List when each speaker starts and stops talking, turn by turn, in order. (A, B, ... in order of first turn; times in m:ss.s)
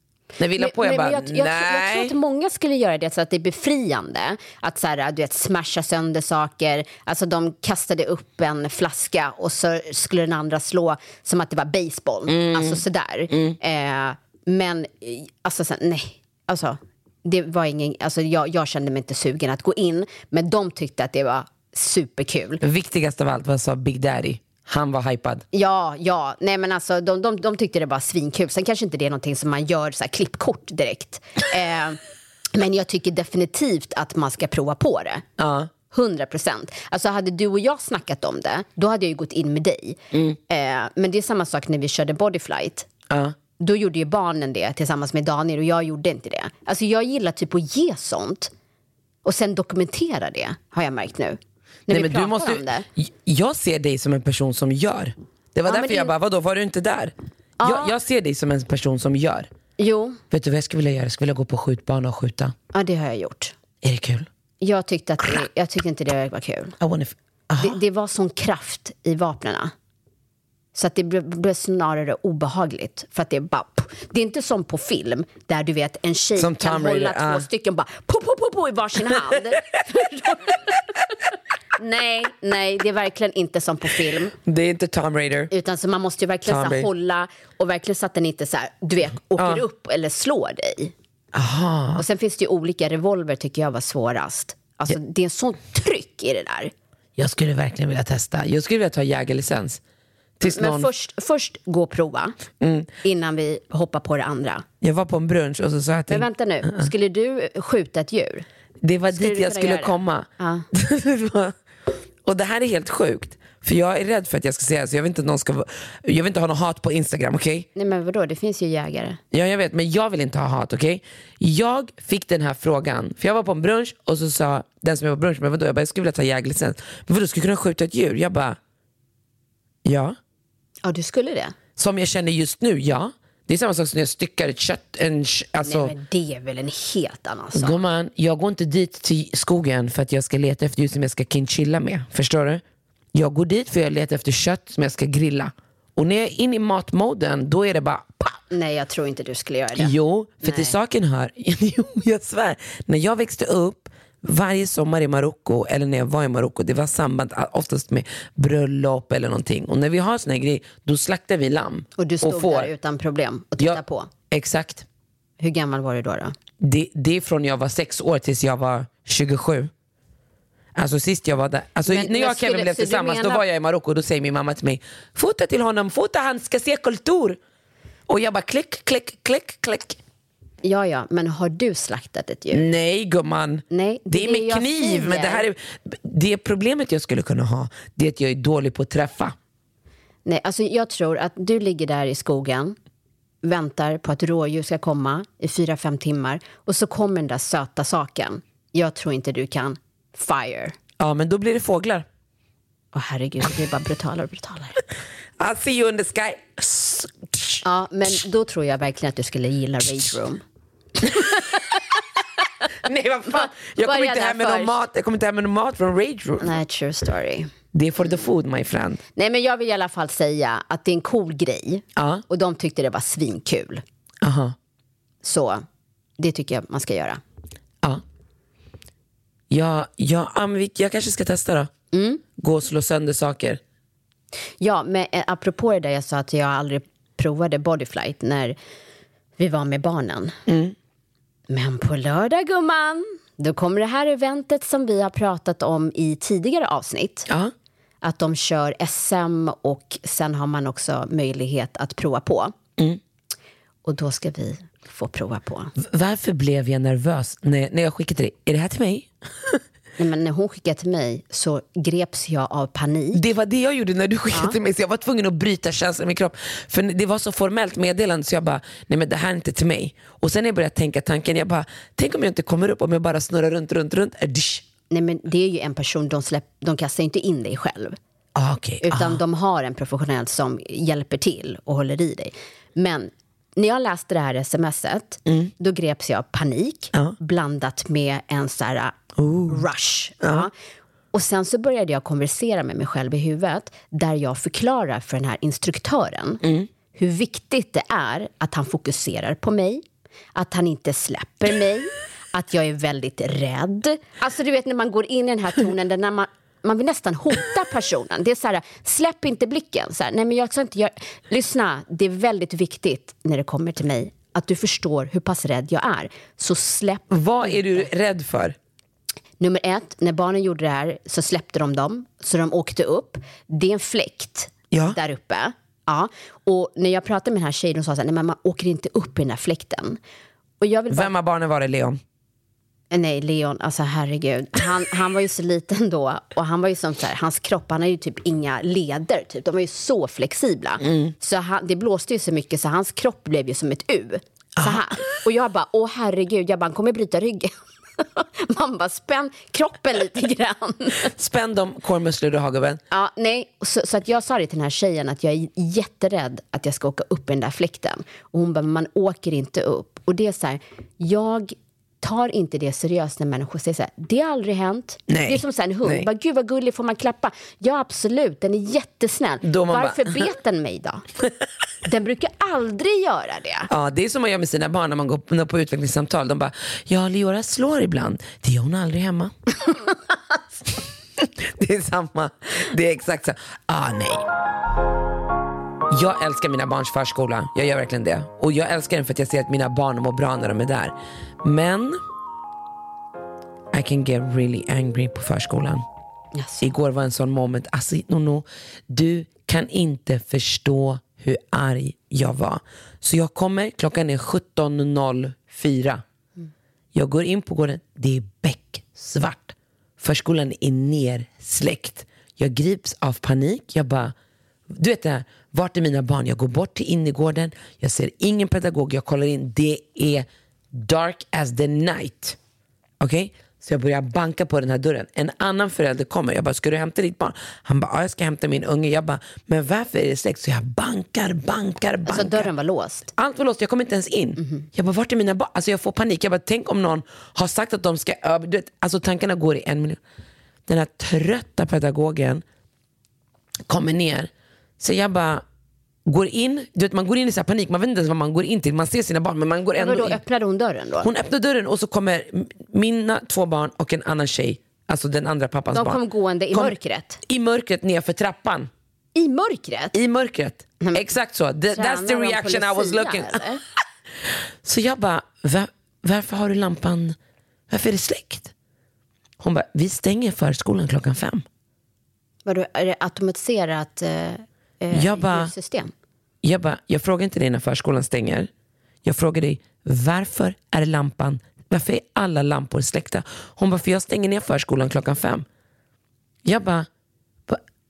0:00.4-0:02.1 A
0:00.6-0:22.6 B
0:12.3-0:13.6 A
0:22.6-0:25.4 A
0:25.5-0:32.0 B
0:32.5-0:35.2 B
0:35.4-0:35.7 A
0:35.9-0:42.9 B
0:40.1-0:40.4 A
0:43.1-0:43.4 A
0:43.6-0:48.5 B
0:49.2-0:52.9 B
0:51.9-0:59.5 A
0:55.7-0:56.1 B
0:57.6-0:57.9 B
0:59.8-1:00.2 B
1:00.3-1:02.5 A
1:02.7-1:03.5 B
1:03.8-1:04.3 A
1:04.6-1:06.7 B
1:06.8-1:07.8 A
1:07.6-1:09.7 B
1:10.8-1:20.6 B
1:16.4-1:17.5 A
1:21.8-1:24.3 B
1:24.4-1:25.5 A
1:25.5-1:30.9 B
1:26.5-1:26.9 A
1:29.4-1:29.6 A
1:31.3-1:32.0 A
1:32.0-1:36.7 B
1:37.2-1:39.8 A
1:40.4-1:40.9 A
1:40.4-1:42.4 B
1:42.6-1:42.9 A
1:43.0-1:44.6 B
1:44.8-1:46.9 A
1:46.1-1:48.4 B
1:48.8-1:51.5 A
1:49.1-1:50.6 B
1:52.2-1:57.7 A
1:57.8-1:59.2 B
1:59.3-2:08.6 A
2:09.8-2:10.2 A
2:10.8-2:11.6 B
2:11.8-2:15.9 A
2:15.6-2:17.8 B
2:17.6-2:22.6 A
2:23.2-2:28.4 A
2:28.5-2:30.7 B
2:29.8-2:42.7 A
2:42.0-2:44.1 B
2:44.3-2:44.8 A
2:45.4-2:46.3 B
2:46.6-2:49.7 A
2:50.8-2:57.4 A
2:51.9-2:53.4 B
2:58.1-3:00.0 A
3:00.6-3:02.6 B
3:02.5-3:09.4 A
3:03.7-3:05.4 B
3:10.2-3:12.8 B
3:13.4-3:20.8 B
3:21.0-3:22.1 A
3:22.9-3:24.8 B
3:25.4-3:27.6 A
3:27.6-3:30.4 B
3:31.1-3:31.6 B
3:32.8-3:36.5 A
3:33.3-3:34.8 B
3:36.4-3:37.5 B
3:37.7-3:39.0 A
3:39.2-3:43.8 B
3:42.0-3:42.2 A
3:44.2-3:44.6 A
3:45.2-3:45.6 B
3:46.2-3:47.2 B
3:49.5-3:51.7 A
3:51.9-3:52.2 B
3:52.4-3:53.6 A
3:54.6-3:58.6 B
3:59.4-4:00.4 B
4:00.5-4:00.8 A
4:01.5-4:07.3 B
4:08.0-4:12.5 B
4:13.8-4:15.7 B
4:15.8-4:19.6 A
4:20.0-4:23.2 B
4:23.2-4:34.7 A
4:34.9-4:38.0 B
4:38.4-4:39.2 A
4:38.8-4:49.0 B
4:45.3-4:45.5 A
4:49.2-4:49.6 A
4:49.5-4:50.5 B
4:50.2-4:50.5 A
4:51.1-4:56.4 B
4:56.4-4:56.7 A
4:56.9-4:59.8 B
5:00.4-5:17.9 B
5:17.1-5:18.6 A
5:19.4-5:30.0 B
5:24.7-5:25.0 A
5:30.6-5:31.1 B
5:30.9-5:32.0 A
5:32.9-5:51.1 B
5:40.8-5:41.1 A
5:44.6-5:44.9 A
5:51.1-5:52.8 A
5:52.9-6:11.0 B
6:05.1-6:06.1 A
6:09.4-6:10.3 A
6:11.8-6:13.7 B
6:13.7-6:19.3 A
6:21.2-6:24.2 A
6:25.9-6:32.0 A
6:33.7-6:35.8 A
6:36.4-6:36.7 B
6:36.6-6:46.0 A
6:46.9-6:54.1 A
6:54.7-7:02.4 A
7:03.0-7:12.5 A
7:12.1-7:13.1 B
7:13.2-7:20.0 A
7:14.4-7:14.7 B
7:20.7-7:22.4 A
7:23.7-7:25.4 A
7:26.1-7:30.2 A
7:29.8-7:31.1 B
7:31.0-7:36.8 A
7:35.7-7:37.2 B
7:37.3-7:38.7 A
7:39.2-7:39.9 B
7:39.9-7:43.5 A
7:41.7-7:43.6 B
7:44.6-7:47.2 A
7:47.7-7:48.5 A
7:49.4-7:51.4 A
7:52.5-7:55.9 B
7:54.9-7:55.5 A
7:56.4-7:58.5 A
7:59.0-8:05.4 A
8:06.4-8:06.9 A